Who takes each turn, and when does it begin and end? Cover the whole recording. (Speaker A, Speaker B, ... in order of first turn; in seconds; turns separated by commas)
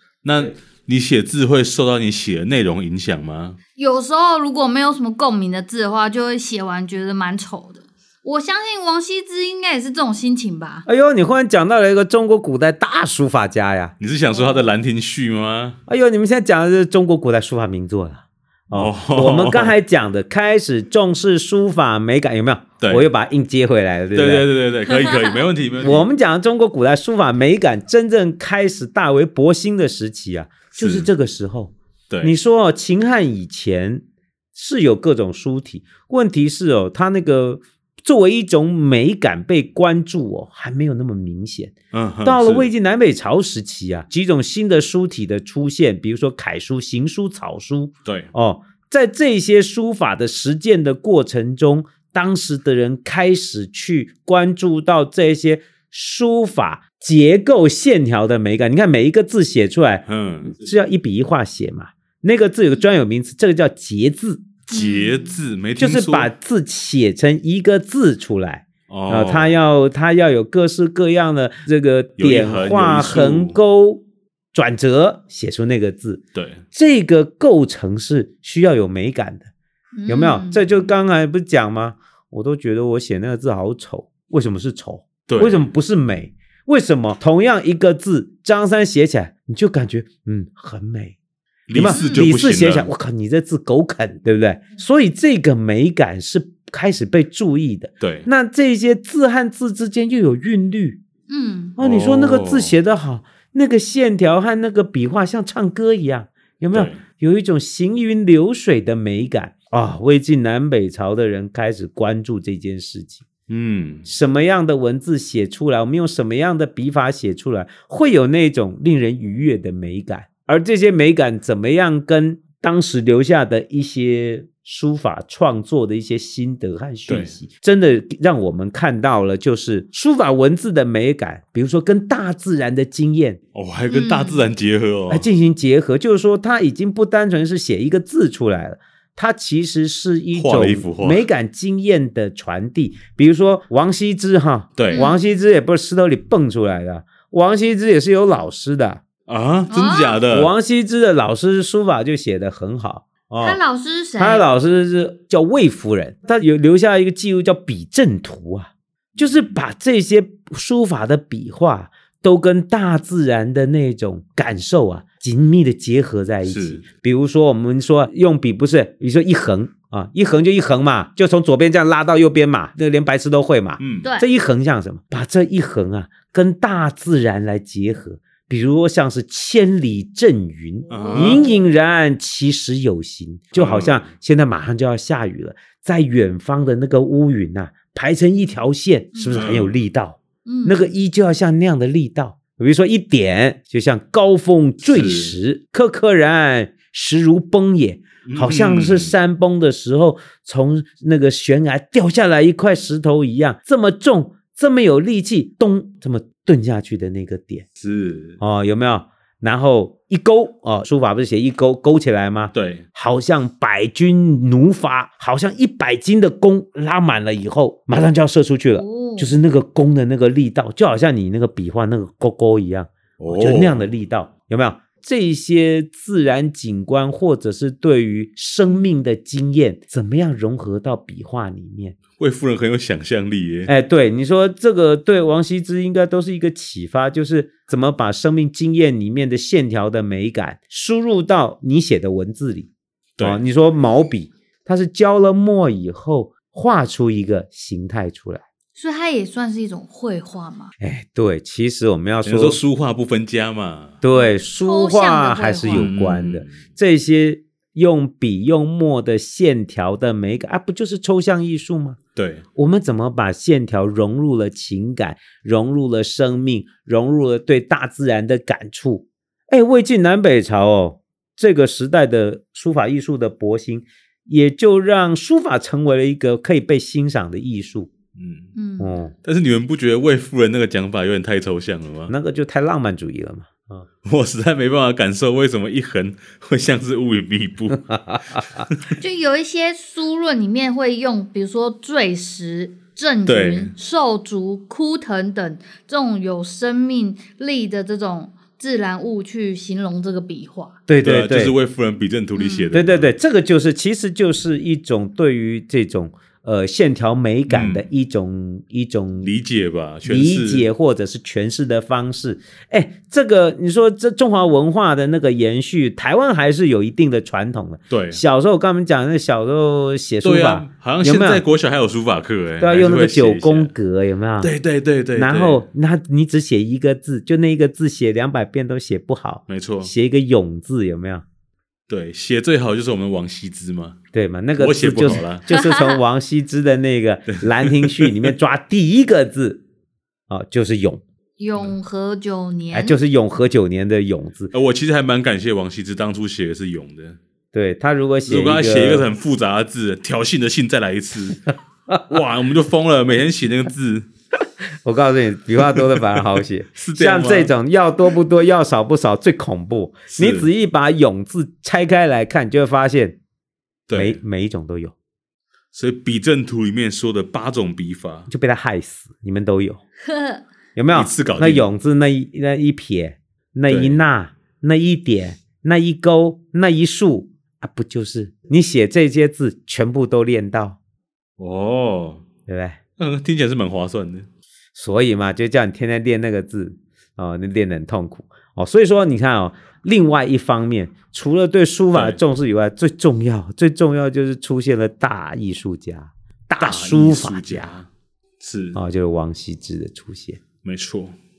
Speaker A: 0.2-3.6, Speaker B: 3.8-10.8, Speaker C: 10.8-13.9, Speaker A: 14.0-15.8, Speaker B: 14.3-14.7, Speaker C: 15.9-24.5, Speaker A: 18.7-19.7, Speaker A: 22.8-23.1, Speaker A: 24.1-26.1, Speaker C: 25.8-64.6, Speaker A: 30.7-31.1, Speaker A: 41.9-42.7, Speaker A: 60.1-60.5, Speaker A: 64.7-66.3, Speaker B: 64.7-65.3, Speaker C: 65.8-74.0, Speaker A: 68.9-69.6, Speaker A: 72.2-73.6, Speaker C: 74.5-76.2, Speaker A: 76.3-76.6, Speaker C: 76.7-79.5, Speaker B: 79.9-80.6, Speaker C: 80.1-91.2, Speaker A: 85.3-85.7, Speaker A: 91.7-92.9, Speaker C: 91.7-101.0, Speaker B: 91.9-92.2, Speaker A: 98.0-98.3, Speaker B: 101.3-101.8, Speaker C: 101.8-113.3, Speaker A: 101.8-102.8, Speaker A: 106.7-107.0, Speaker A: 113.5-114.0, Speaker C: 114.0-133.4, Speaker A: 127.1-127.3, Speaker A: 133.5-135.2, Speaker B: 133.9-134.5, Speaker C: 135.1-149.0, Speaker A: 140.3-141.2, Speaker A: 144.8-145.1, Speaker B: 144.9-145.2, Speaker A: 149.3-150.5, Speaker B: 149.7-150.2, Speaker C: 150.3-153.6, Speaker B: 153.4-154.4, Speaker C: 154.2-207.7, Speaker A: 166.4-166.8, Speaker A: 173.8-174.1, Speaker B: 174.0-174.3, Speaker A: 180.9-181.4, Speaker B: 180.9-181.6, Speaker A: 183.5-184.1, Speaker B: 189.1-189.4, Speaker A: 189.3-189.7, Speaker B: 190.4-190.8, Speaker A: 194.8-195.3, Speaker A: 198.2-199.1, Speaker A: 207.8-208.4, Speaker C: 208.4-232.0, Speaker A: 212.5-212.8, Speaker B: 218.7-219.3, Speaker A: 223.2-223.9, Speaker A: 232.2-233.7, Speaker C: 233.7-242.7, Speaker C: 243.2-248.4, Speaker B: 248.8-250.7, Speaker C: 250.8-252.6, Speaker A: 252.2-254.0, Speaker C: 254.0-262.0, Speaker B: 254.1-255.9, Speaker A: 255.7-256.5, Speaker A: 262.1-262.4, Speaker C: 262.6-277.9, Speaker A: 278.1-278.5, Speaker B: 278.5-279.0, Speaker C: 278.8-279.1, Speaker A: 279.2-282.1, Speaker C: 282.1-283.9, Speaker A: 284.0-287.9, Speaker C: 287.9-288.7, Speaker A: 288.4-288.8, Speaker B: 289.0-300.8, Speaker A: 293.2-293.7, Speaker C: 300.9-301.5, Speaker A: 301.0-303.1, Speaker B: 302.4-302.7, Speaker C: 302.7-309.3, Speaker A: 307.5-307.8, Speaker A: 309.2-310.7, Speaker C: 310.1-321.4, Speaker A: 317.9-318.2, Speaker A: 320.2-323.7, Speaker C: 322.6-324.5, Speaker A: 324.4-325.6, Speaker C: 325.1-331.2, Speaker A: 329.5-329.9, Speaker A: 331.9-334.0, Speaker C: 334.1-339.6, Speaker A: 334.6-335.4, Speaker B: 335.5-336.0, Speaker A: 337.3-338.3, Speaker C: 340.3-341.0, Speaker B: 341.4-343.0, Speaker C: 342.7-344.5, Speaker A: 344.5-347.2, Speaker C: 347.5-349.1, Speaker A: 348.3-354.1, Speaker C: 354.8-363.2, Speaker A: 355.8-356.2, Speaker A: 356.8-357.5, Speaker A: 360.1-360.5, Speaker A: 363.9-364.2, Speaker C: 363.9-364.9, Speaker A: 365.7-368.3, Speaker C: 368.3-369.8, Speaker B: 370.0-370.4, Speaker C: 370.8-380.8, Speaker A: 370.9-371.7, Speaker A: 373.7-374.0, Speaker A: 381.4-382.2, Speaker C: 382.5-382.8, Speaker A: 383.0-384.3, Speaker C: 384.7-397.7, Speaker A: 391.9-392.2, Speaker A: 396.6-397.9, Speaker A: 398.4-398.8, Speaker C: 398.7-400.4, Speaker A: 400.6-401.1